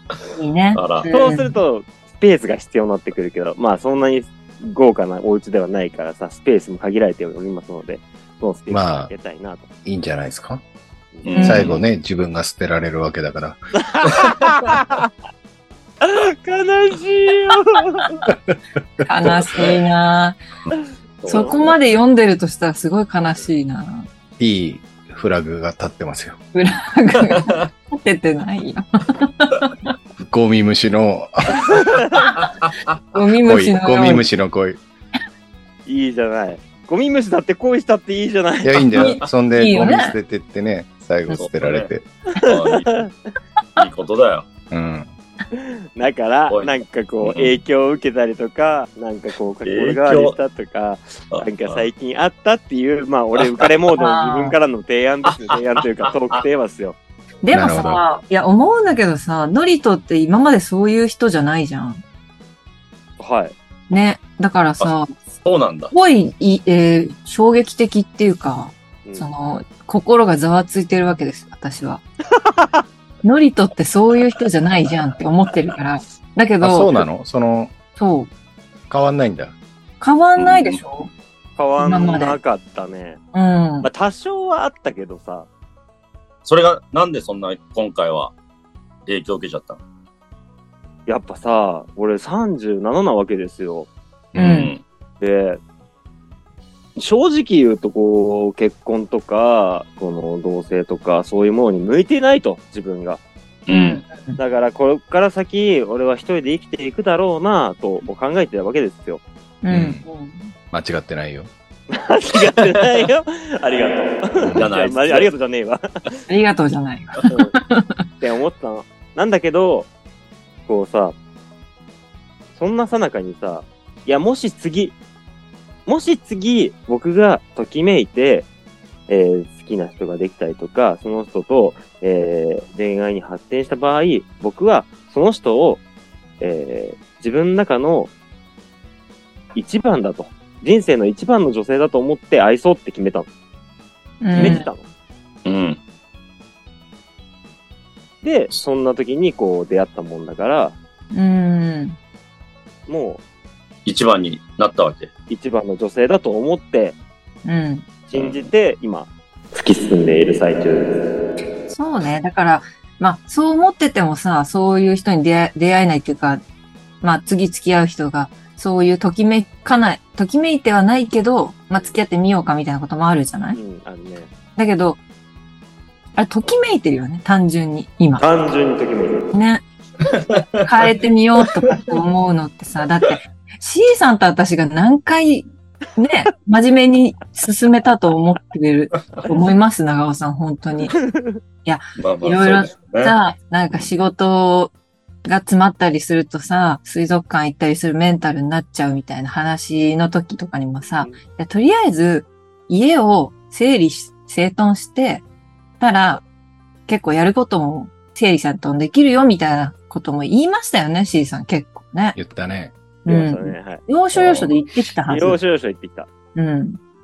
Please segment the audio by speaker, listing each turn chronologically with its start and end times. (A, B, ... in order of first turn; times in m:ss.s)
0:00.4-0:01.6 A
0:00.7-0:01.1 B
0:01.1-0:09.7 C
0:08.7-0:09.1 D
0:09.8-0:10.6 D
0:11.2-0:11.8 B
0:11.3-0:11.7 A
0:11.4-0:13.6 D
0:13.9-0:15.1 C
0:16.0-0:18.2 C
0:19.0-0:20.4 A
0:21.2-0:21.5 B
0:21.3-0:21.6 C
0:21.3-0:24.1 A
0:24.4-0:26.4 D
0:26.5-0:29.7 A
0:27.2-0:27.6 B
0:30.2-0:31.6 D
0:32.3-0:33.0 B
0:33.1-0:34.2 A
0:33.4-0:34.8 D
0:35.8-0:38.9 C
0:38.6-0:42.0 D
0:39.0-0:40.1 A
0:41.4-0:43.1 B
0:42.5-0:43.1 C
0:43.8-0:44.5 B
0:44.7-0:45.1 D
0:45.5-0:57.0 C
0:46.5-0:47.6 B
0:49.6-0:50.4 B
0:51.3-0:51.8 B
0:53.9-0:54.6 A
0:55.2-0:56.4 B
0:57.4-1:02.0 A
0:57.5-0:58.0 D
1:03.2-1:03.5 C
1:03.9-1:05.2 A
1:05.4-1:05.9 B
1:05.9-1:12.0 A
1:09.0-1:09.3 C
1:13.2-1:17.0 A
1:16.6-1:17.7 D
1:18.0-1:18.3 A
1:18.9-1:19.5 D
1:20.0-1:21.1 A
1:20.4-1:20.8 B
1:21.6-1:23.2 C
1:21.8-1:22.4 A
1:23.3-1:23.9 A
1:23.8-1:25.5 C
1:26.4-1:28.3 B
1:29.0-1:29.8 B
1:31.0-1:33.9 C
1:34.3-1:34.7 D
1:34.4-1:34.7 A
1:34.4-1:34.8 B
1:35.2-1:35.6 C
1:37.0-1:43.2 C
1:43.6-1:44.0 B
1:43.7-1:44.4 A
1:44.4-1:49.2 C
1:49.6-1:50.5 A
1:49.7-1:50.0 D
1:50.7-1:51.5 D
1:51.9-1:55.8 C
1:54.4-1:54.7 D
1:54.6-1:55.3 B
1:56.3-1:58.0 A
1:58.2-1:59.9 C
2:00.7-2:01.2 C
2:02.5-2:05.0 C
2:05.8-2:08.5 C
2:09.1-2:15.8 C
2:16.4-2:18.1 C
2:19.5-2:23.3 C
2:24.2-2:24.7 A
2:24.3-2:24.6 B
2:24.3-2:24.9 C
2:25.4-2:25.8 B
2:28.2-2:30.8 C
2:31.1-2:32.0 A
2:32.9-2:33.2 C
2:33.8-2:35.1 B
2:35.3-2:37.0 C
2:37.4-2:37.8 A
2:38.1-2:41.0 C
2:38.1-2:38.4 B
2:41.7-2:46.4 A
2:47.0-2:53.6 A
2:53.5-2:54.3 C
2:54.6-2:55.0 A
2:56.2-2:58.3 A
2:58.2-2:59.3 C
2:59.3-2:59.6 A
3:00.1-3:00.7 B
3:00.6-3:11.0 A
3:11.1-3:11.4 C
3:11.6-3:14.7 A
3:12.0-3:13.1 B
3:15.2-3:25.2 A
3:20.9-3:21.2 C
3:25.8-3:26.2 A
3:26.9-3:32.2 A
3:32.2-3:32.7 D
3:33.0-3:33.8 C
3:33.0-3:35.4 A
3:34.1-3:34.6 B
3:35.1-3:36.1 C
3:36.4-3:36.8 A